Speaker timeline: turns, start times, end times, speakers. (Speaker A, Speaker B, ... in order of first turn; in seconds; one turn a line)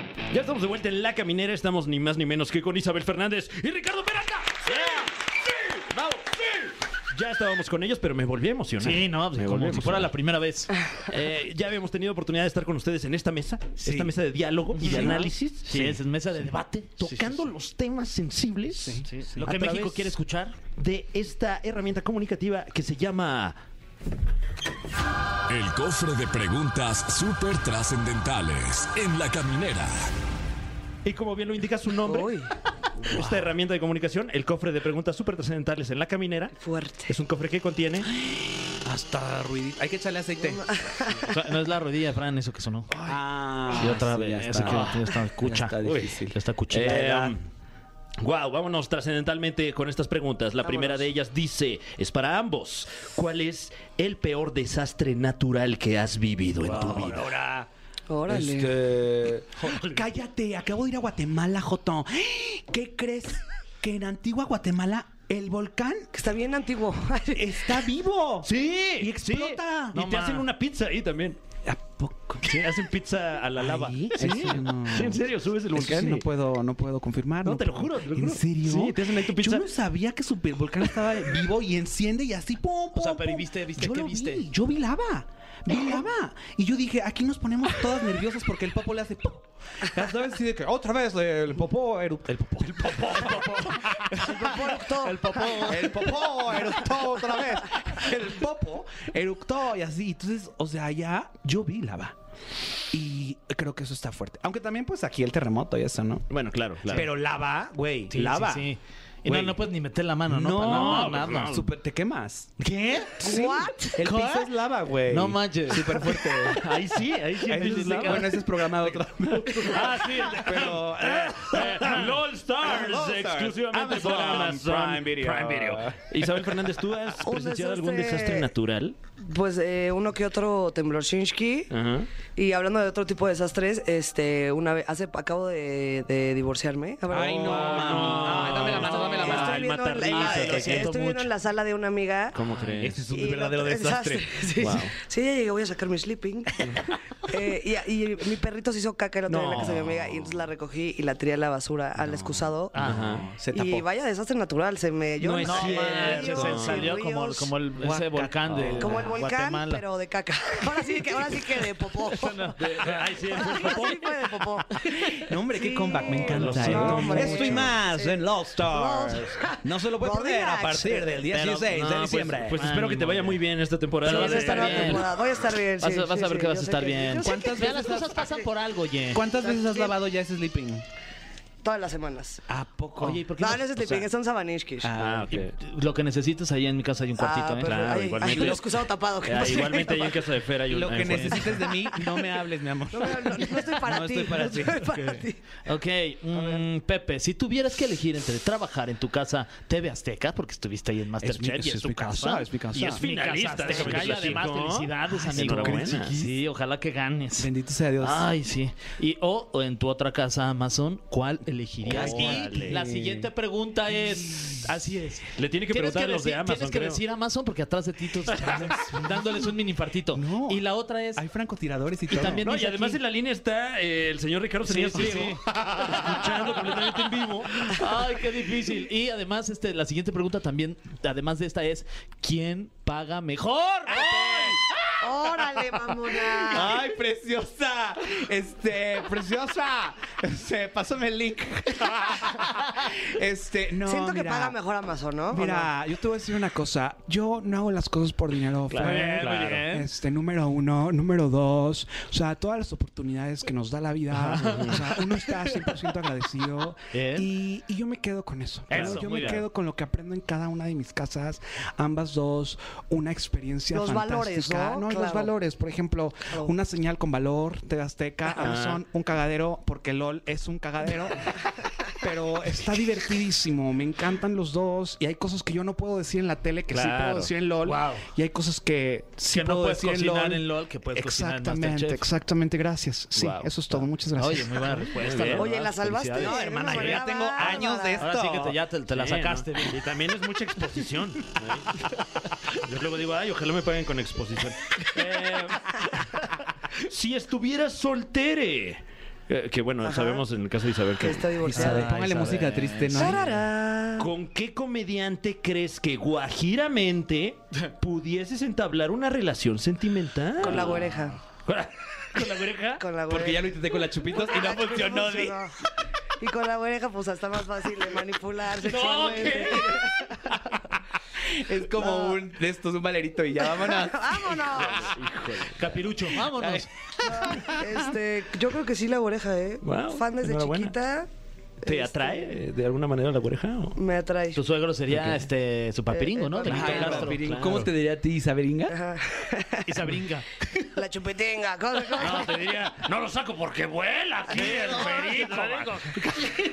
Speaker A: 0.3-10.1
Speaker B: 8.8-10.7
Speaker A: 11.1-16.0
Speaker C: 13.8-14.1
Speaker B: 14.8-17.5
Speaker C: 14.8-15.3
Speaker A: 17.0-20.1
Speaker C: 18.7-19.8
Speaker B: 19.3-20.6
Speaker A: 20.8-23.6
Speaker D: 25.5-30.1
Speaker A: 31.0-32.4
Speaker E: 32.0-32.5
Speaker A: 33.0-36.5
Speaker E: 36.6-37.1
Speaker A: 37.1-38.1
Speaker C: 38.0-40.6
Speaker E: 40.4-41.3
Speaker B: 41.2-42.9
Speaker A: 42.9-43.2
Speaker C: 43.0-47.4
Speaker B: 43.7-47.1
Speaker A: 44.6-45.0
Speaker A: 45.8-46.2
Speaker A: 46.7-47.4
Speaker A: 48.2-57.3
Speaker E: 50.6-51.0
Speaker C: 56.6-57.7
Speaker E: 58.1-58.8
Speaker C: 58.3-66.1
Speaker E: 66.1-67.8
Speaker C: 67.3-70.0
Speaker A: 68.4-71.4
Speaker B: 69.9-70.5
Speaker C: 71.6-72.6
Speaker A: 72.4-76.3
Speaker C: 73.6-94.7
Speaker A: 77.4-79.7
Speaker B: 82.9-84.5
Speaker B: 93.1-96.1
Speaker E: 94.2-95.9
Speaker C: 95.6-102.2
Speaker C: 102.9-106.2
Speaker A: 106.3-107.1
Speaker C: 106.9-108.7
Speaker B: 108.1-111.5
Speaker C: 109.2-109.6
Speaker C: 110.3-116.7
Speaker A: 110.6-111.7
Speaker B: 112.6-113.2
Speaker E: 113.2-114.0
Speaker B: 114.0-114.5
Speaker B: 115.1-116.1
Speaker A: 116.4-128.9
Speaker C: 117.4-126.6
Speaker B: 117.6-118.3
Speaker E: 127.2-128.5
Speaker E: 129.2-131.7
Speaker A: 131.7-132.1
Speaker E: 132.3-142.4
Speaker C: 137.1-139.6
Speaker A: 137.1-141.0
Speaker B: 138.0-139.6
Speaker B: 140.1-141.3
Speaker C: 140.2-140.6
Speaker A: 142.3-143.0
Speaker B: 142.5-142.9
Speaker C: 142.8-144.4
Speaker E: 143.1-152.7
Speaker A: 144.6-144.9
Speaker A: 149.3-149.9
Speaker C: 152.0-153.9
Speaker B: 152.7-153.2
Speaker A: 152.8-153.2
Speaker E: 153.5-157.5
Speaker A: 155.2-156.9
Speaker B: 155.4-159.8
Speaker C: 157.8-159.2
Speaker E: 158.8-162.5
Speaker B: 162.2-162.9
Speaker A: 162.6-164.1
Speaker E: 163.3-171.2
Speaker C: 164.9-172.7
Speaker A: 166.3-167.7
Speaker B: 166.5-167.2
Speaker B: 171.3-171.9
Speaker A: 171.7-175.2
Speaker B: 172.5-173.4
Speaker E: 174.0-178.4
Speaker B: 174.0-175.1
Speaker B: 175.8-179.2
Speaker C: 177.2-178.2
Speaker C: 179.1-180.8
Speaker E: 179.4-179.9
Speaker E: 181.6-182.4
Speaker C: 182.5-183.2
Speaker B: 183.0-184.0
Speaker E: 183.4-184.9
Speaker C: 184.8-185.5
Speaker A: 184.9-185.5
Speaker B: 185.4-187.7
Speaker E: 187.2-190.2
Speaker A: 187.6-191.6
Speaker C: 188.2-188.5
Speaker C: 190.7-194.9
Speaker B: 191.0-191.4
Speaker E: 192.9-195.4
Speaker B: 195.6-221.2
Speaker E: 196.3-196.6
Speaker C: 201.2-203.0
Speaker A: 202.7-206.2
Speaker C: 203.6-204.4
Speaker C: 205.1-206.4
Speaker C: 207.3-208.3
Speaker C: 211.8-213.3
Speaker A: 211.8-212.8
Speaker C: 213.9-214.8
Speaker A: 215.4-217.0
Speaker C: 218.3-219.5
Speaker C: 220.1-222.4
Speaker B: 222.1-223.0
Speaker A: 222.4-227.7
Speaker B: 224.6-226.2
Speaker B: 227.6-234.2
Speaker C: 233.9-235.3
Speaker A: 234.2-234.4
Speaker E: 235.0-236.8
Speaker C: 236.1-244.6
Speaker E: 243.8-245.7
Speaker C: 245.3-271.5
Speaker A: 248.7-249.6
Speaker B: 248.7-249.9
Speaker B: 254.3-254.7
Speaker A: 254.4-254.8
Speaker B: 256.9-257.3
Speaker B: 258.7-259.4
Speaker A: 258.7-259.4
Speaker E: 263.7-265.3
Speaker A: 268.4-268.8
Speaker C: 272.0-284.9
Speaker A: 276.7-277.3
Speaker B: 277.6-278.1
Speaker B: 279.3-282.0
Speaker A: 283.1-283.6
Speaker B: 284.2-287.1
Speaker A: 284.9-285.5
Speaker E: 285.3-288.1
Speaker C: 286.1-288.6
Speaker B: 288.0-289.8
Speaker A: 288.9-291.8
Speaker A: 292.5-301.4
Speaker E: 299.8-300.2
Speaker E: 301.0-301.9
Speaker C: 301.4-303.2
Speaker B: 301.5-303.4
Speaker E: 302.9-304.1
Speaker A: 304.0-312.8
Speaker E: 310.4-311.2
Speaker E: 312.8-315.5
Speaker C: 313.1-315.4
Speaker E: 316.2-320.1
Speaker A: 318.6-319.8
Speaker B: 319.0-319.5
Speaker C: 321.2-324.8
Speaker E: 321.7-322.2
Speaker E: 323.4-324.9
Speaker A: 324.5-325.8
Speaker B: 325.6-326.7
Speaker C: 326.3-327.4
Speaker E: 327.0-331.1
Speaker A: 329.6-330.7
Speaker E: 331.6-332.2
Speaker A: 331.6-333.8
Speaker E: 333.8-334.4
Speaker B: 334.3-337.6
Speaker E: 335.9-337.1
Speaker C: 336.4-338.8
Speaker A: 336.6-337.7
Speaker E: 338.7-339.7
Speaker B: 339.6-340.3
Speaker E: 340.7-342.4
Speaker A: 342.0-346.3
Speaker E: 344.3-345.1
Speaker C: 344.4-345.0
Speaker B: 344.4-345.7